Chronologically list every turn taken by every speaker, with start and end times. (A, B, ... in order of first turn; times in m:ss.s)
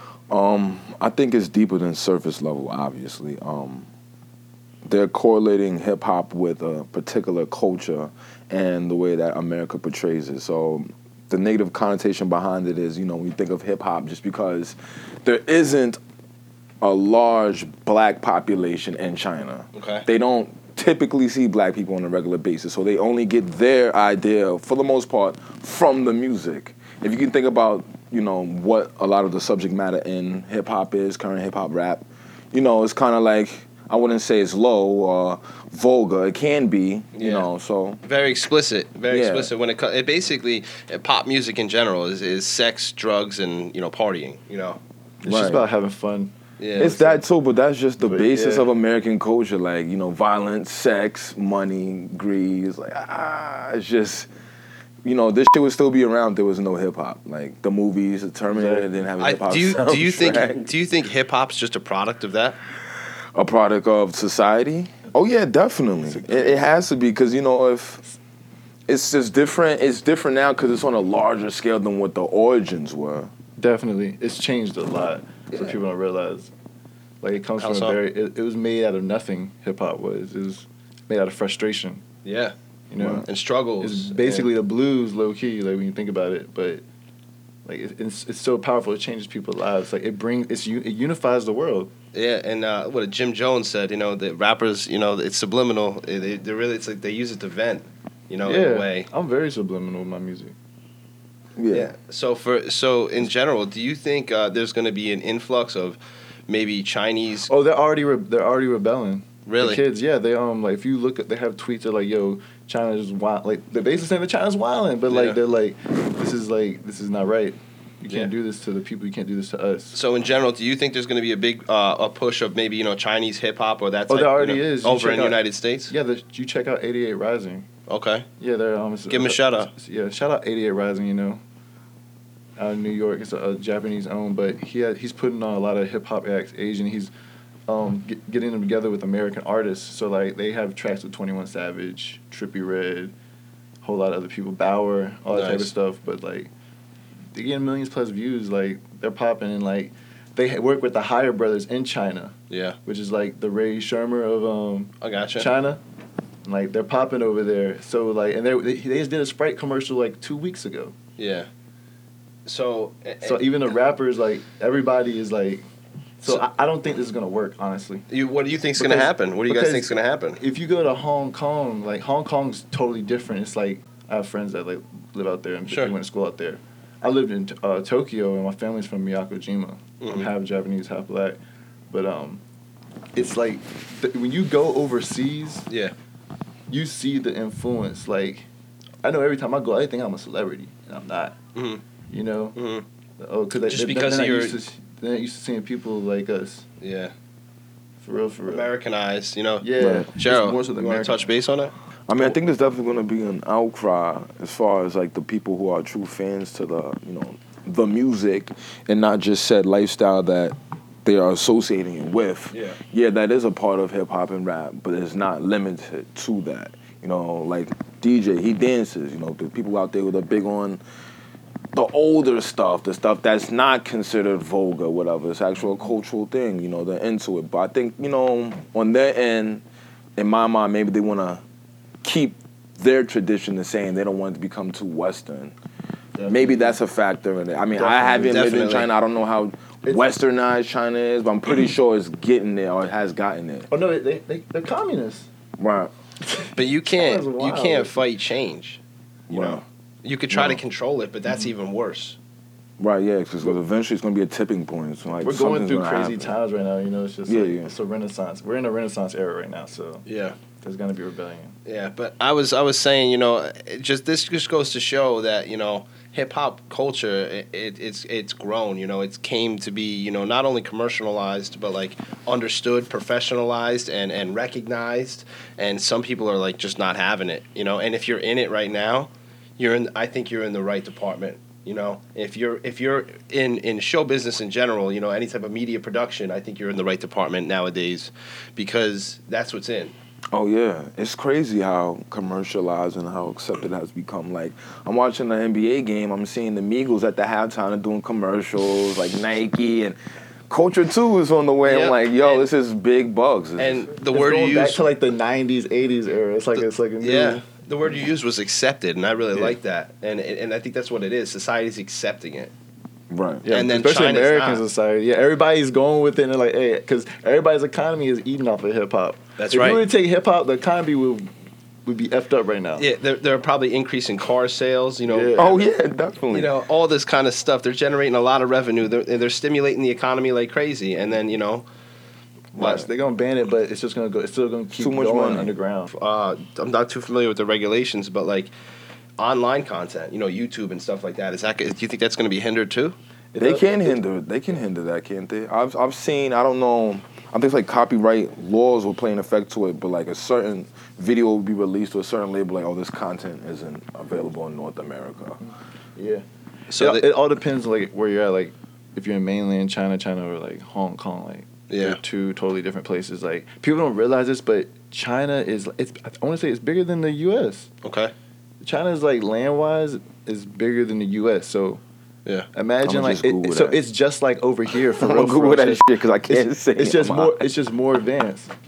0:00.3-0:03.9 A
0:04.8-0:16.0 A
0:16.8-0:38.0 A
0:19.7-0:20.1 B
0:37.2-0:37.5 B
0:38.0-0:44.8 B
0:39.1-0:39.5 A
0:45.2-0:46.3 C
0:45.3-0:45.7 A
0:46.6-0:47.0 B
0:46.8-0:54.3 A
0:46.9-0:47.2 C
0:48.0-0:48.7 C
0:55.0-1:00.7 A
0:58.5-0:58.9 C
0:59.2-1:02.6 B
1:03.4-1:08.0 A
1:06.2-1:06.6 C
1:08.9-1:13.3 A
1:13.6-1:16.5 C
1:17.2-1:22.0 C
1:17.6-1:18.0 B
1:22.2-1:22.5 B
1:22.9-1:23.3 C
1:23.0-1:23.3 A
1:23.2-1:24.5 B
1:23.8-1:26.8 C
1:27.6-1:31.9 C
1:32.1-1:39.1 B
1:38.4-1:40.6 C
1:41.6-1:41.9 A
1:41.7-1:47.5 B
1:47.5-2:00.0 C
1:49.5-1:49.8 B
1:55.1-1:55.4 B
1:59.9-2:05.9 B
2:04.1-2:07.7 C
2:07.9-2:08.2 B
2:08.4-2:11.4 C
2:09.1-2:09.7 B
2:12.6-2:17.1 C
2:17.7-2:23.1 C
2:23.8-2:26.5 C
2:25.3-2:25.7 B
2:27.3-2:32.3 C
2:32.5-2:32.8 B
2:32.8-2:35.8 C
2:35.0-2:35.5 B
2:36.4-2:41.0 C
2:41.2-2:41.5 B
2:42.5-2:43.7 B
2:43.2-2:45.7 C
2:46.2-2:48.1 C
2:48.1-2:50.4 B
2:48.8-2:49.9 C
2:50.4-3:01.4 C
3:00.0-3:00.3 B
3:01.9-3:02.4 C
3:03.2-3:05.7 C
3:06.7-3:08.5 C
3:09.0-3:11.4 C
3:11.6-3:11.8 B
3:12.1-3:12.6 C
3:12.6-3:12.8 B
3:13.2-3:16.7 C
3:13.6-3:14.6 B
3:16.8-3:17.1 B
3:18.0-3:18.7 C
3:18.5-3:21.7 B
3:19.6-3:21.2 C
3:22.1-3:40.8 A
3:32.5-3:32.8 B
3:41.7-3:49.6 A
3:50.2-3:51.4 A
3:52.0-3:55.5 A
3:56.2-3:56.5 C
3:56.3-4:03.7 A
3:57.7-3:58.4 C
3:58.2-3:58.9 B
4:03.7-4:05.3 C
4:05.6-4:05.9 A
4:06.4-4:08.0 C
4:06.6-4:12.2 B
4:09.3-4:09.6 A
4:10.3-4:10.6 A
4:12.8-4:16.3 A
4:15.2-4:20.0 C
4:17.3-4:17.7 A
4:20.1-4:20.4 B
4:20.6-4:21.6 C
4:21.6-4:50.0 B
4:50.3-5:00.0 A
5:00.5-5:03.9 A
5:01.7-5:02.5 B
5:03.6-5:04.8 B
5:04.1-5:07.4 C
5:06.6-5:12.5 B
5:13.1-5:13.5 A
5:13.4-5:21.3 C
5:13.5-5:14.6 B
5:19.4-5:19.8 B
5:21.9-5:22.9 C
5:22.8-5:25.7 B
5:25.1-5:25.6 C
5:25.4-5:26.5 A
5:26.3-5:31.7 B
5:32.5-5:36.0 C
5:32.6-5:32.9 B
5:34.8-5:35.5 A
5:36.0-5:38.5 B
5:39.2-5:43.0 B
5:43.3-5:43.9 C
5:43.4-5:55.4 A
5:56.0-5:56.2 C
5:56.7-5:57.1 B
5:56.8-6:07.7 C
6:01.7-6:02.0 B
6:07.8-6:08.1 B
6:08.6-6:11.8 C
6:12.5-6:18.5 C
6:12.8-6:13.8 A
6:14.8-6:17.5 A